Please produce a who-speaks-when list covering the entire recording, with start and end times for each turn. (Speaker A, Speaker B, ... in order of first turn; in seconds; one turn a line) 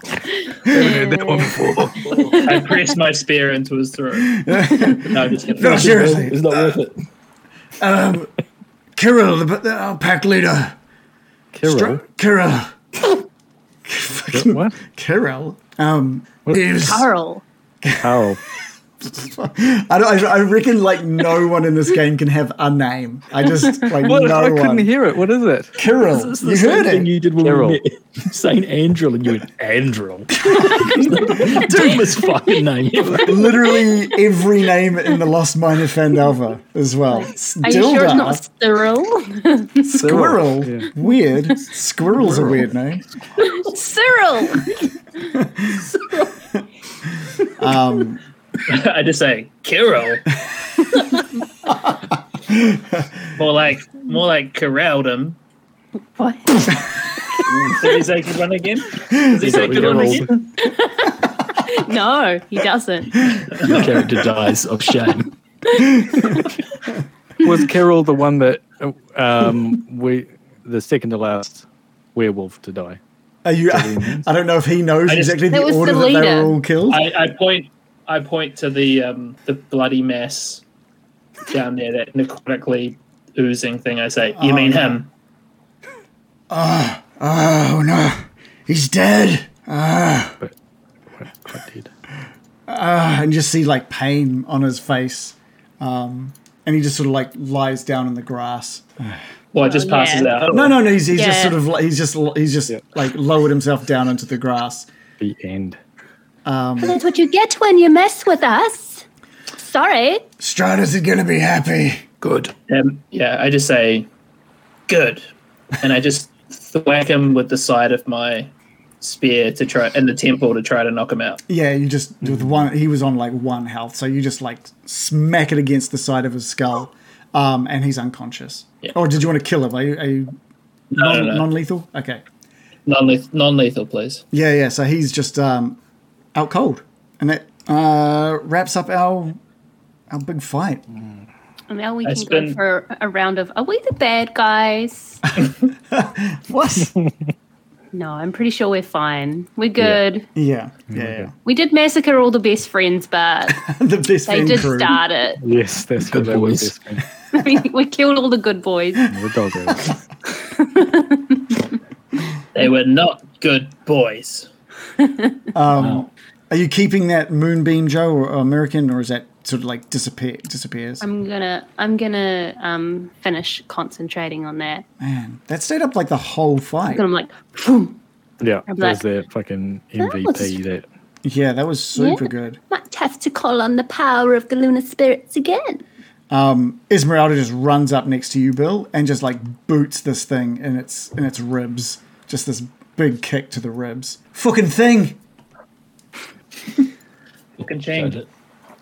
Speaker A: 0.4-1.5
Speaker B: 0.7-2.1
Speaker C: 1.5-2.4
Speaker A: 2.1-2.6
Speaker D: 2.3-6.1
Speaker E: 4.3-6.8
Speaker C: 5.5-7.0
Speaker E: 7.8-8.3
Speaker E: 9.0-10.8
Speaker B: 11.5-12.0
Speaker E: 11.6-12.7
Speaker E: 13.8-17.1
Speaker B: 14.3-14.8
Speaker A: 16.8-17.4
Speaker E: 17.8-18.2
Speaker B: 18.0-18.4
Speaker E: 19.0-24.9
Speaker B: 24.0-25.8
Speaker E: 25.8-27.1
Speaker C: 26.0-33.5
Speaker B: 27.4-27.8
Speaker E: 30.4-32.0
Speaker A: 31.4-31.9
Speaker E: 33.2-38.4
Speaker A: 33.4-34.0
Speaker A: 37.1-40.0
Speaker E: 39.9-43.0
Speaker B: 39.9-40.9
Speaker A: 43.4-44.7
Speaker E: 45.3-45.8
Speaker C: 45.7-46.3
Speaker E: 47.5-48.2
Speaker D: 48.7-50.3
Speaker E: 52.4-53.1
Speaker D: 53.4-55.4
Speaker A: 56.2-56.9
Speaker D: 57.7-60.5
Speaker E: 59.1-59.4
Speaker B: 59.3-60.3
Speaker A: 60.6-63.5
Speaker E: 63.4-63.7
Speaker C: 63.6-65.3
Speaker A: 65.7-66.5
Speaker E: 65.9-66.3
Speaker B: 67.4-73.0
Speaker E: 73.5-77.1
Speaker B: 73.7-74.3
Speaker D: 75.1-75.4
Speaker A: 75.5-76.6
Speaker D: 76.9-80.6
Speaker D: 81.5-85.1
Speaker E: 84.4-85.0
Speaker E: 86.5-90.4
Speaker B: 91.1-91.9
Speaker E: 92.7-99.2
Speaker D: 99.5-100.8
Speaker A: 99.6-100.4
Speaker E: 100.5-104.9
Speaker A: 101.1-101.6
Speaker B: 105.2-105.8
Speaker E: 106.5-107.0
Speaker A: 106.8-109.0
Speaker A: 109.6-110.3
Speaker E: 110.4-112.0
Speaker C: 112.2-112.5
Speaker D: 112.7-114.1
Speaker D: 114.9-115.3
Speaker D: 115.8-121.4
Speaker E: 121.5-130.3
Speaker B: 122.2-122.5
Speaker E: 130.9-132.2
Speaker D: 130.9-131.5
Speaker D: 132.9-134.2
Speaker E: 134.3-135.8
Speaker E: 136.3-139.4
Speaker E: 140.1-140.8
Speaker A: 141.7-145.2
Speaker D: 142.1-142.6
Speaker E: 145.4-146.9
Speaker A: 147.9-150.3
Speaker E: 150.3-151.3
Speaker B: 150.9-151.3
Speaker A: 151.4-153.6
Speaker E: 153.5-155.0
Speaker A: 154.3-155.4
Speaker B: 155.4-157.1
Speaker C: 156.1-156.7
Speaker A: 157.3-159.1
Speaker B: 159.1-160.0
Speaker A: 160.5-161.6
Speaker D: 162.6-164.5
Speaker A: 165.0-165.3
Speaker E: 165.5-171.1
Speaker C: 165.7-166.1
Speaker A: 171.0-174.8
Speaker E: 175.0-177.1
Speaker A: 176.9-178.0
Speaker B: 178.4-180.8
Speaker A: 178.7-179.0
Speaker A: 180.0-180.6
Speaker E: 181.2-182.6
Speaker A: 182.0-185.8
Speaker E: 186.3-195.2
Speaker C: 197.6-198.3
Speaker D: 197.6-198.2